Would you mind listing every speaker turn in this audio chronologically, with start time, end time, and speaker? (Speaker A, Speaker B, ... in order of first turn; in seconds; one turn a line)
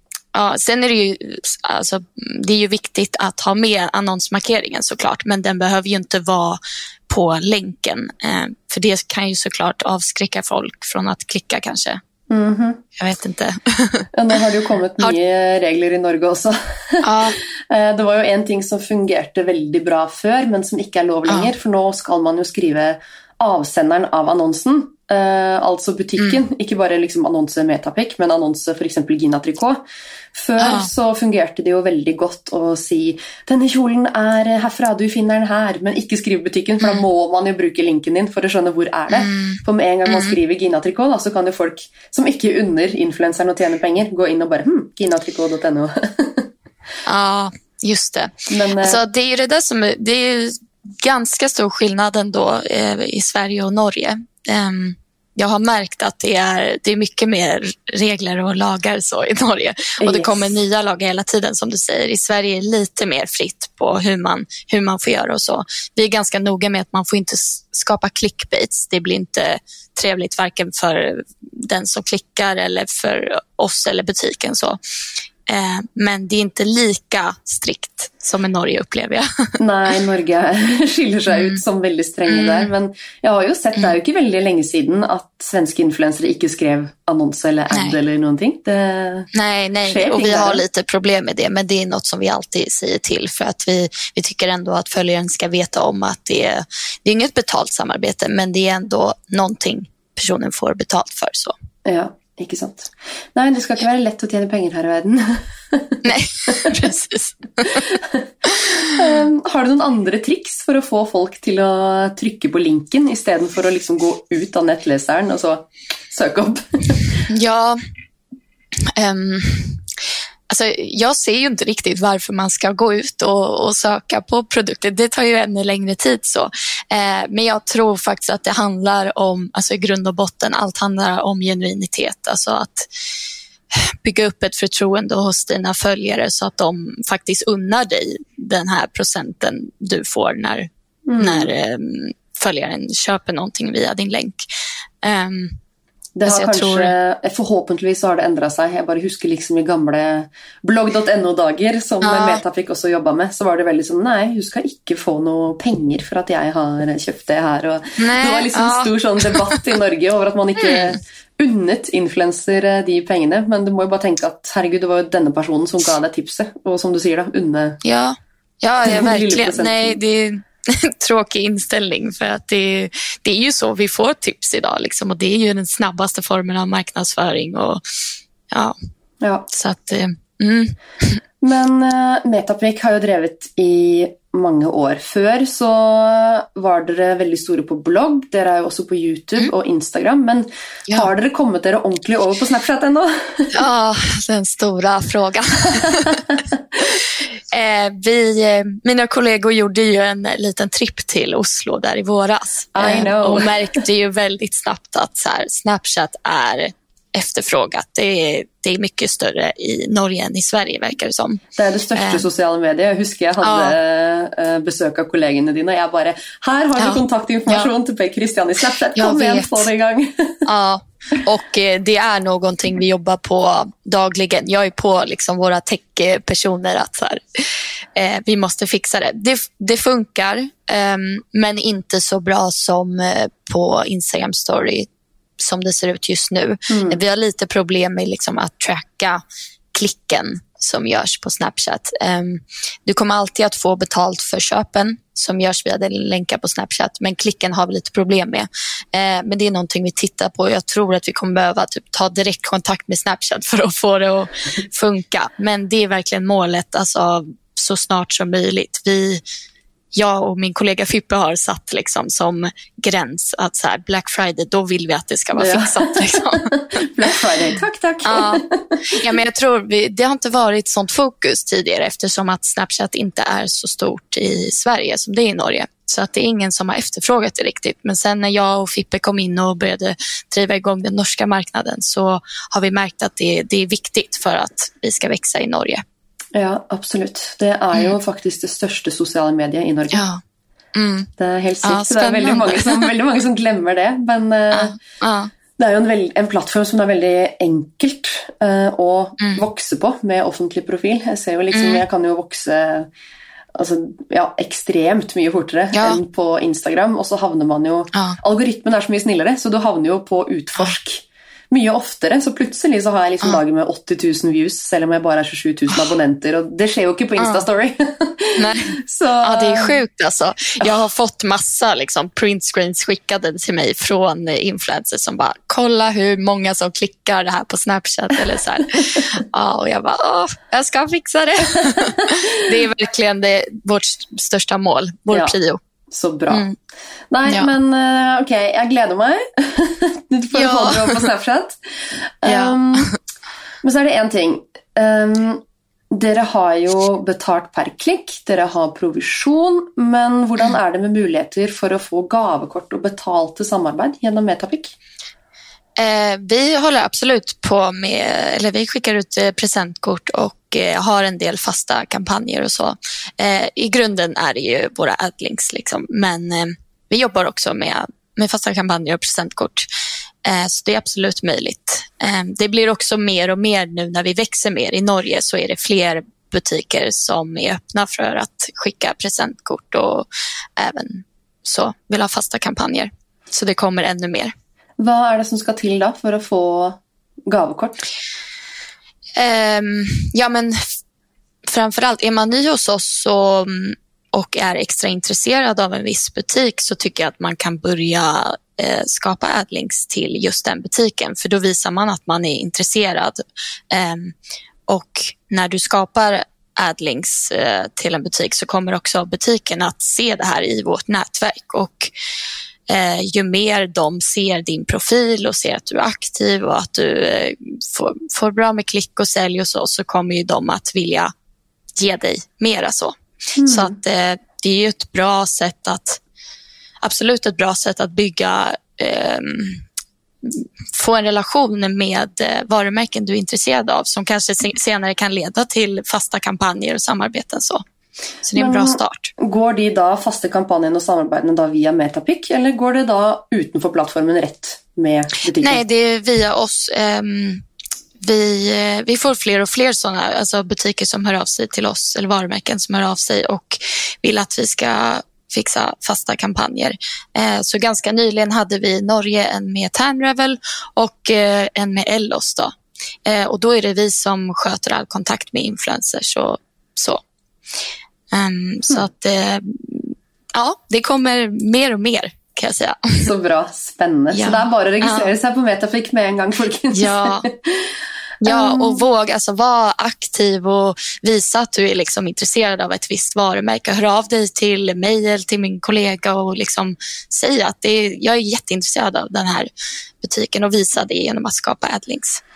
Speaker A: 0.3-12.0
Speaker B: 12.3-12.8
Speaker A: 13.0-14.1
Speaker B: 14.1-29.8
Speaker A: 17.0-17.4
Speaker B: 30.3-46.5
Speaker A: 30.6-30.9
Speaker A: 39.1-40.4
Speaker A: 47.0-74.8
Speaker B: 48.5-49.0
Speaker B: 60.0-60.5
Speaker A: 75.5-79.5
Speaker B: 79.6-89.3
Speaker A: 81.3-81.6
Speaker A: 82.3-82.7
Speaker A: 87.7-88.0
Speaker A: 89.3-101.5
Speaker B: 89.8-90.6
Speaker B: 101.8-106.8
Speaker A: 106.0-107.9
Speaker B: 107.7-108.3
Speaker B: 108.8-117.2
Speaker A: 117.3-117.8
Speaker A: 118.9-119.8
Speaker A: 120.5-132.9
Speaker A: 133.7-144.4
Speaker B: 141.1-141.5
Speaker A: 145.0-145.6
Speaker B: 146.2-167.8
Speaker A: 146.2-146.9
Speaker A: 152.0-152.4
Speaker A: 158.0-159.6
Speaker A: 160.6-160.9
Speaker A: 167.8-177.8
Speaker B: 168.8-169.9
Speaker A: 178.5-178.8
Speaker B: 179.2-179.5
Speaker A: 179.5-181.2
Speaker B: 181.4-193.6
Speaker A: 193.5-196.4
Speaker A: 196.9-211.4
Speaker B: 202.7-203.5
Speaker B: 211.6-220.4
Speaker A: 211.9-212.2
Speaker A: 213.4-213.8
Speaker A: 216.8-217.7
Speaker A: 218.9-219.7
Speaker A: 220.4-234.9
Speaker A: 235.4-239.2
Speaker B: 236.7-237.0
Speaker A: 239.7-259.2
Speaker A: 259.9-266.8
Speaker B: 265.4-268.8
Speaker A: 268.0-285.8
Speaker B: 286.3-290.0
Speaker A: 289.9-290.2
Speaker A: 290.7-291.1
Speaker B: 291.2-294.8
Speaker A: 291.6-292.9
Speaker A: 294.5-295.3
Speaker B: 295.6-302.9
Speaker A: 301.5-301.8
Speaker B: 303.5-319.8
Speaker A: 305.7-306.0
Speaker A: 317.2-317.4
Speaker A: 318.4-335.6
Speaker B: 331.6-332.1
Speaker B: 335.1-335.3
Speaker B: 335.9-336.4
Speaker A: 336.3-336.6
Speaker B: 337.1-342.9
Speaker A: 337.3-337.5
Speaker A: 340.3-341.1
Speaker A: 342.2-342.9
Speaker B: 343.6-354.7
Speaker A: 355.8-369.7
Speaker A: 370.2-384.3
Speaker B: 384.8-387.8
Speaker A: 389.2-390.7
Speaker A: 391.4-404.1
Speaker A: 404.7-411.9
Speaker A: 412.7-421.1
Speaker A: 421.8-426.0
Speaker B: 423.4-423.7
Speaker A: 426.8-429.6
Speaker A: 430.2-437.6
Speaker A: 438.2-439.1
Speaker B: 438.4-445.6
Speaker A: 445.4-447.4
Speaker A: 448.0-462.5
Speaker A: 463.0-467.0
Speaker A: 468.1-473.1
Speaker B: 473.0-477.7
Speaker A: 474.1-475.1
Speaker A: 476.7-477.3
Speaker A: 478.2-489.5
Speaker B: 478.2-478.8
Speaker A: 490.0-492.2